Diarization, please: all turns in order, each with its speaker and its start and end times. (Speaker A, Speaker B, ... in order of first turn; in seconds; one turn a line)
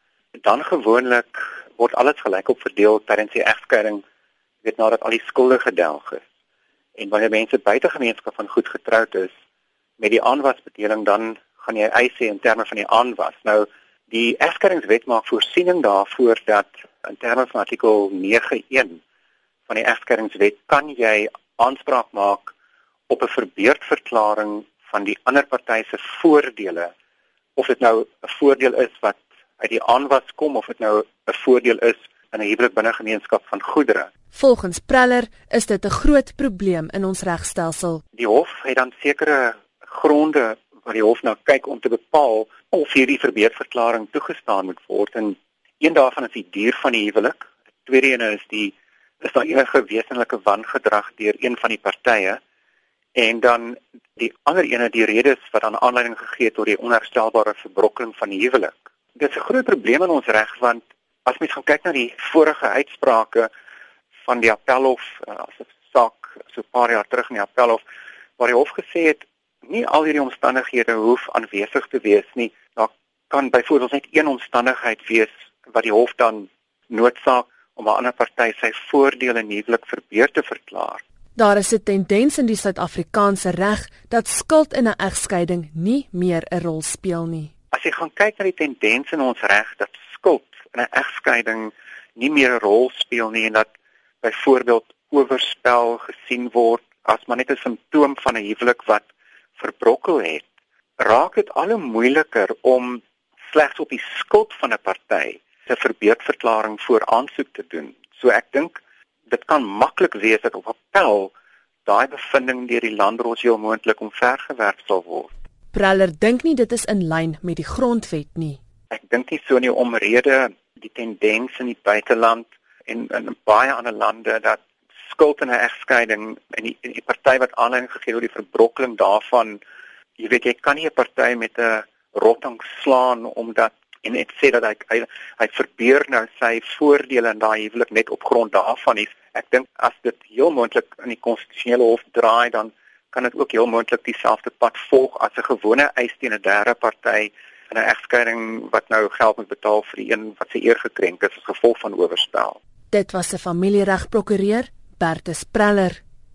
Speaker A: 0.4-4.0
Speaker A: 4.6-6.2
Speaker A: 7.0-9.3
Speaker A: 10.0-19.0
Speaker A: 19.7-22.5
Speaker A: 23.1-26.9
Speaker A: 27.6-34.1
Speaker B: 34.3-38.0
Speaker A: 38.1-52.4
Speaker A: 53.1-63.5
Speaker A: 64.2-67.8
Speaker A: 68.4-81.0
Speaker B: 81.4-87.5
Speaker A: 87.7-93.7
Speaker A: 94.2-100.5
Speaker A: 101.0-111.3
Speaker A: 111.8-115.3
Speaker B: 115.7-118.6
Speaker A: 118.9-129.6
Speaker A: 130.2-152.6
Speaker B: 152.9-156.0